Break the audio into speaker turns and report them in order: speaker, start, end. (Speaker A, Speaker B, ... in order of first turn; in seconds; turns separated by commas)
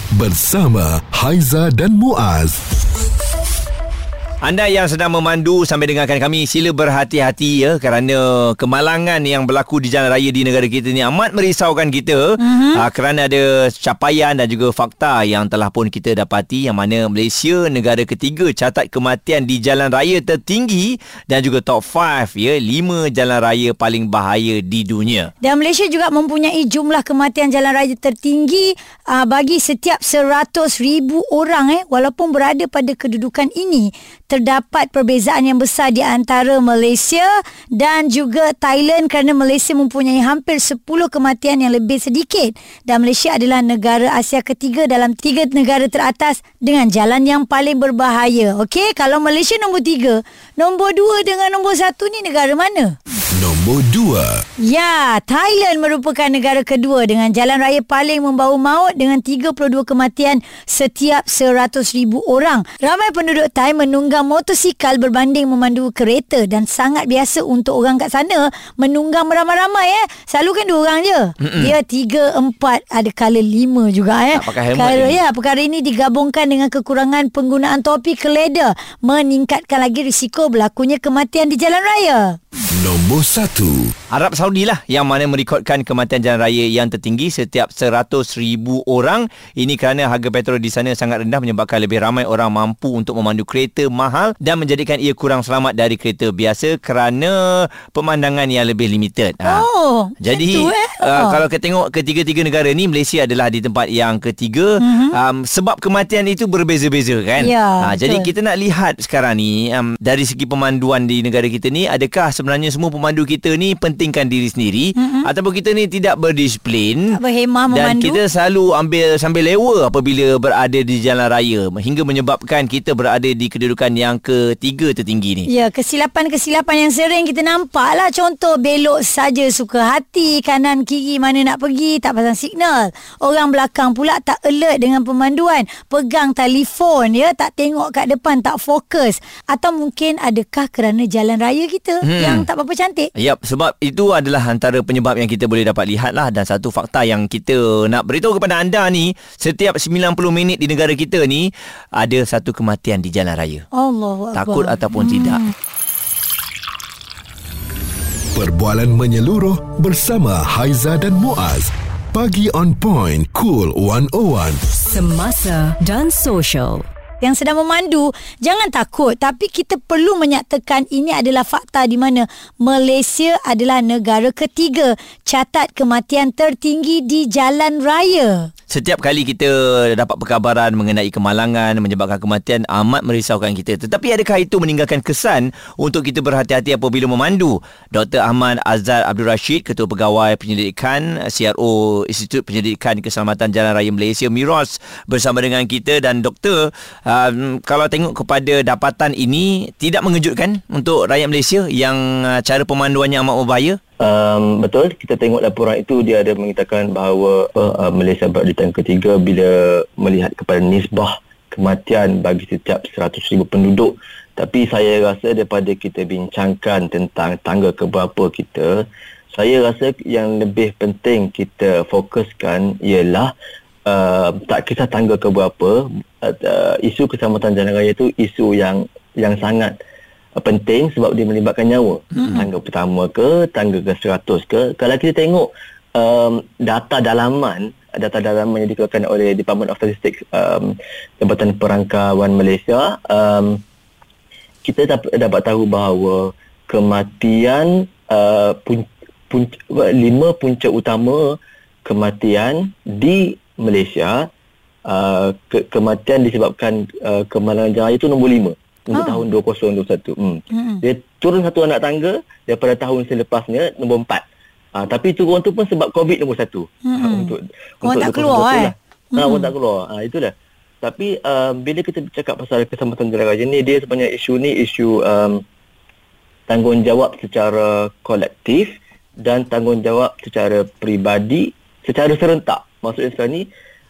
Speaker A: 0.1-2.6, Speaker B: 4.4-25.3, Speaker C: 12.4-12.8, Speaker C: 25.4-53.0, Speaker A: 53.3-54.5, Speaker C: 54.6-82.4, Speaker B: 71.4-71.7, Speaker B: 74.3-75.2, Speaker A: 82.7-83.9, Speaker B: 84.1-99.7, Speaker C: 99.5-101.4, Speaker B: 100.2-117.1, Speaker C: 104.8-105.2, Speaker C: 107.4-108.3, Speaker C: 115.0-115.3, Speaker C: 117.1-118.2, Speaker B: 117.7-125.5, Speaker C: 125.5-143.1, Speaker B: 142.0-142.5, Speaker B: 143.2-153.7, Speaker C: 153.7-155.4, Speaker B: 154.3-155.4, Speaker A: 158.3-164.6, Speaker D: 164.9-166.9, Speaker C: 167.2-178.5, Speaker B: 178.7-203.8, Speaker E: 204.0-223.3, Speaker E: 223.9-229.8, Speaker E: 230.4-243.6, Speaker C: 232.2-232.4, Speaker E: 244.6-254.3, Speaker E: 254.9-264.2, Speaker C: 258.9-259.2, Speaker C: 260.5-260.8, Speaker E: 264.8-275.4, Speaker C: 266.8-269.5, Speaker E: 276.5-283.5